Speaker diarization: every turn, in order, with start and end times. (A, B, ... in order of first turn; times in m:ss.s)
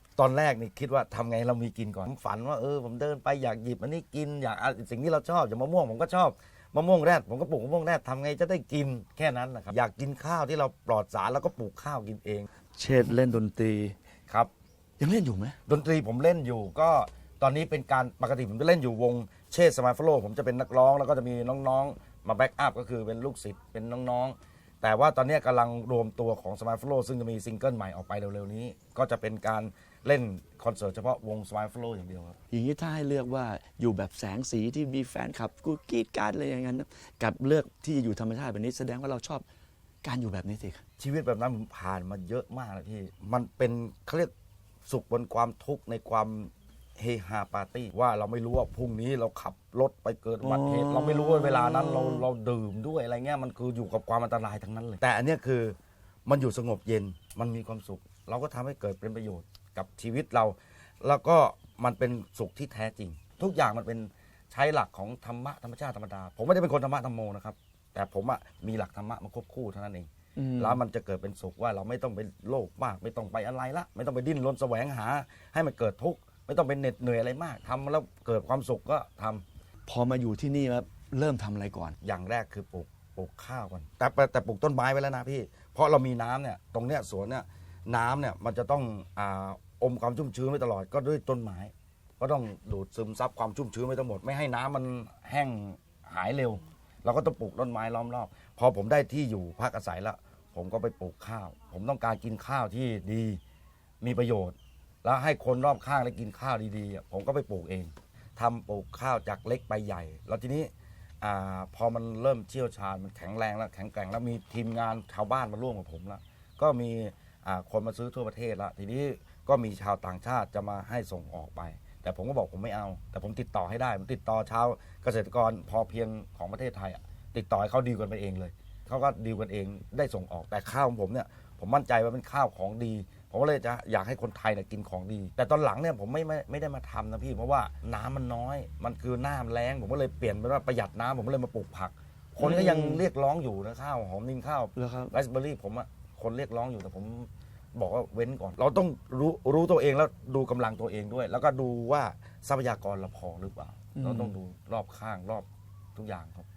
0:00.2-0:12.5 A
0:12.7-0:13.9 B
0:15.0-0:15.6 B
0:15.7-0:32.4 A
0:32.5-0:39.4 B
0:40.0-0:40.8 B
0:41.0-0:44.3 A
0:44.8-1:19.4 A
0:50.4-0:52.2 B
1:10.4-1:10.8 B
1:19.9-1:22.0 B
1:22.0-1:43.4 A
1:44.0-2:36.4 A
2:22.4-2:23.0 B
2:24.7-2:25.1 B
2:33.9-2:34.4 B